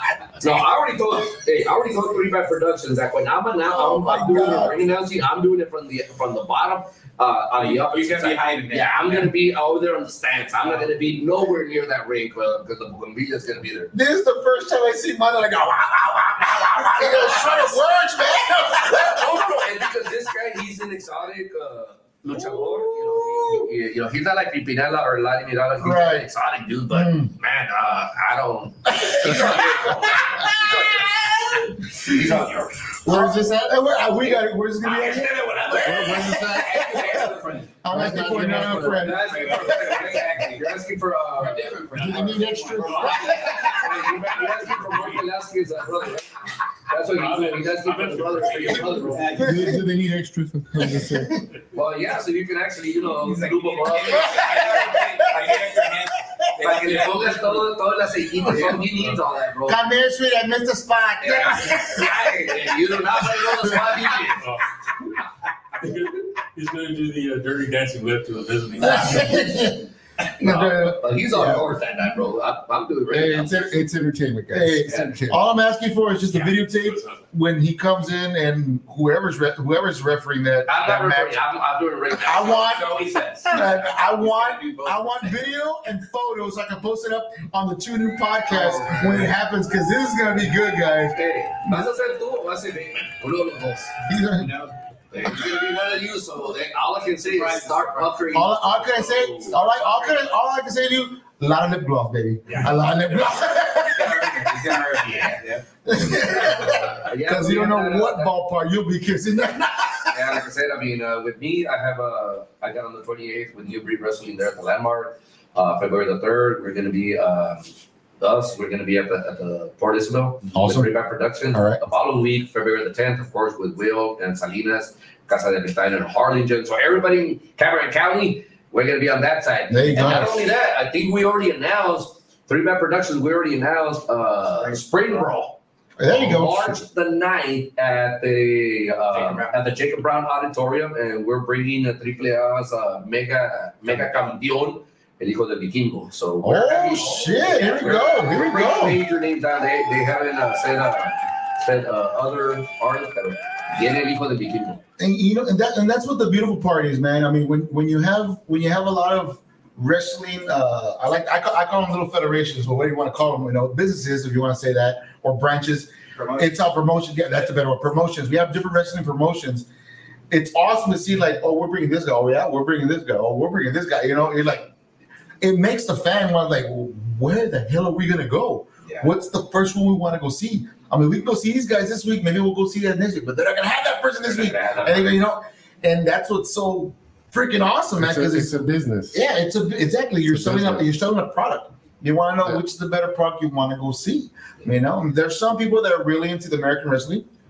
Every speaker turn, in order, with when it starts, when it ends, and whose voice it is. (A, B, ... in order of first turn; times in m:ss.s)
0:00.4-0:13.9 A
0:03.6-0:04.8 B
0:07.6-0:09.3 C
0:10.6-0:10.9 C
0:13.9-0:19.4 B
0:16.3-0:17.8 A
0:18.7-0:33.0 A
0:22.3-0:23.7 B
0:25.8-0:26.3 B
0:26.9-0:27.3 B
0:29.0-0:30.7 B
0:31.5-0:32.5 B
0:33.0-0:35.6 B
0:33.1-0:33.6 D
0:34.8-0:37.3 A
0:35.8-0:36.9 D
0:36.2-0:37.2 B
0:36.6-0:40.8 C
0:37.8-0:40.1 B
0:37.9-0:39.1 D
0:38.9-0:42.0 A
0:41.4-0:43.8 C
0:41.9-0:43.4 E
0:42.0-0:43.1 D
0:42.1-0:43.8 B
0:43.2-0:49.4 A
0:44.7-0:45.2 E
0:47.1-0:49.3 E
0:49.1-0:49.8 C
0:49.4-0:51.4 D
0:51.7-0:55.0 A
0:53.2-0:57.7 C
0:56.6-0:59.8 A
0:58.5-0:58.8 B
0:59.6-1:02.3 B
1:01.2-1:04.4 A
1:04.4-1:04.7 E
1:05.8-1:09.4 E
1:08.9-1:09.8 B
1:10.2-1:13.9 A
1:10.4-1:11.6 B
1:13.1-1:15.4 D
1:14.5-1:21.4 B
1:14.9-1:15.2 A
1:16.3-1:17.2 E
1:20.7-1:23.0 A
1:22.1-1:31.9 B
1:22.6-1:25.5 C
1:31.1-1:34.0 A
1:34.1-1:34.5 B
1:34.4-1:34.8 C
1:35.1-1:40.3 A
1:37.2-1:38.2 C
1:38.3-1:44.5 B
1:43.8-1:46.2 C
1:45.8-1:50.4 B
1:47.0-1:48.3 A
1:50.1-2:34.8 A
2:00.5-2:00.9 B
2:01.5-2:01.8 B
2:09.7-2:10.5 B
2:14.6-2:15.3 C
2:16.0-2:16.8 B
2:19.1-2:19.6 C
2:23.9-2:24.3 C
2:26.4-2:29.0 B
2:35.0-2:49.7 B
2:46.2-2:46.6 C
2:50.3-2:54.7 B
2:55.4-3:08.6 B
2:58.8-2:59.1 C
3:04.3-3:05.2 C
3:08.0-3:09.2 D
3:09.1-3:17.3 B
3:10.3-3:10.8 D